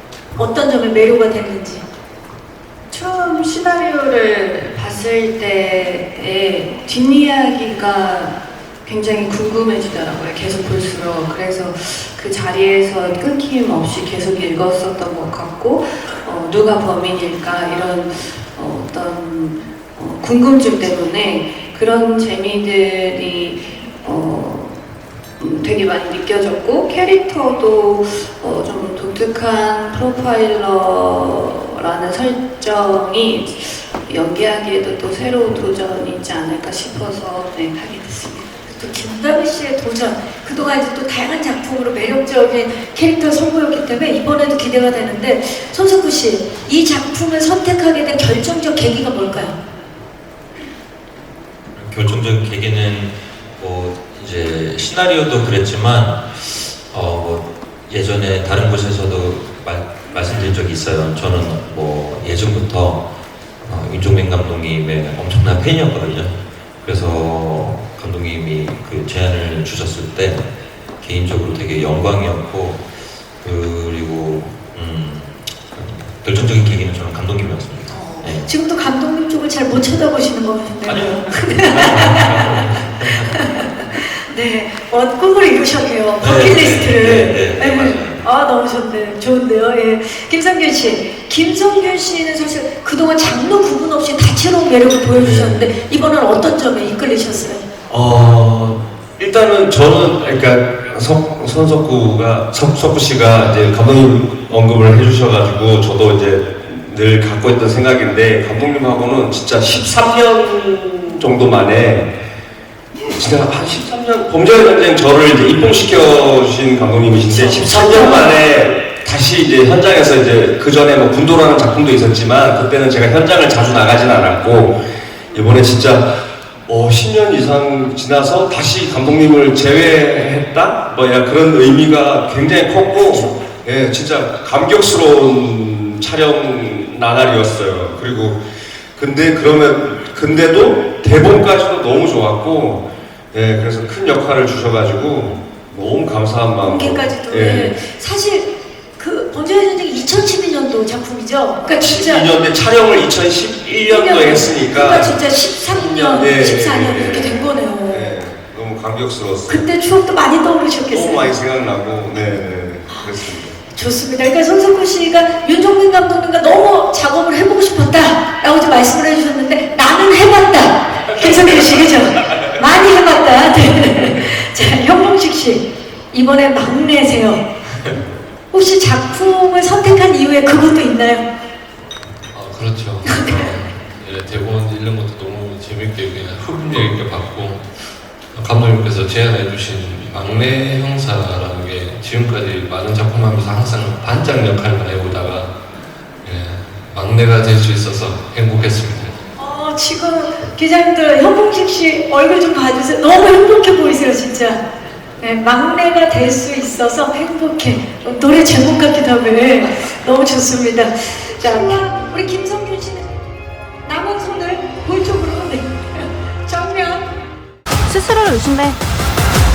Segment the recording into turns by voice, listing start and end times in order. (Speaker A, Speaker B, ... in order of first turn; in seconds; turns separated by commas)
Speaker A: 0.3-1.8, Speaker B: 2.9-24.8, Speaker B: 25.4-38.6, Speaker A: 38.6-49.6, Speaker C: 51.7-63.0, Speaker C: 63.6-78.5, Speaker A: 77.9-82.6, Speaker C: 80.8-83.7, Speaker A: 83.3-97.6, Speaker C: 86.2-88.2, Speaker D: 95.2-95.7, Speaker D: 97.9-112.1, Speaker D: 113.1-124.8, Speaker A: 117.3-118.4, Speaker D: 125.3-126.1, Speaker D: 126.7-138.4, Speaker D: 139.0-147.7, Speaker A: 146.6-152.3, Speaker D: 151.8-155.2, Speaker A: 153.9-158.2, Speaker D: 155.7-159.7, Speaker A: 159.5-161.3, Speaker D: 160.9-163.6, Speaker A: 163.7-177.4, Speaker D: 171.1-171.7, Speaker A: 178.5-181.2, Speaker E: 182.3-187.6, Speaker A: 183.1-183.3, Speaker E: 188.3-195.5, Speaker E: 196.2-199.2, Speaker A: 199.4-204.6, Speaker A: 205.2-213.1, Speaker A: 213.8-217.1, Speaker B: 217.9-218.8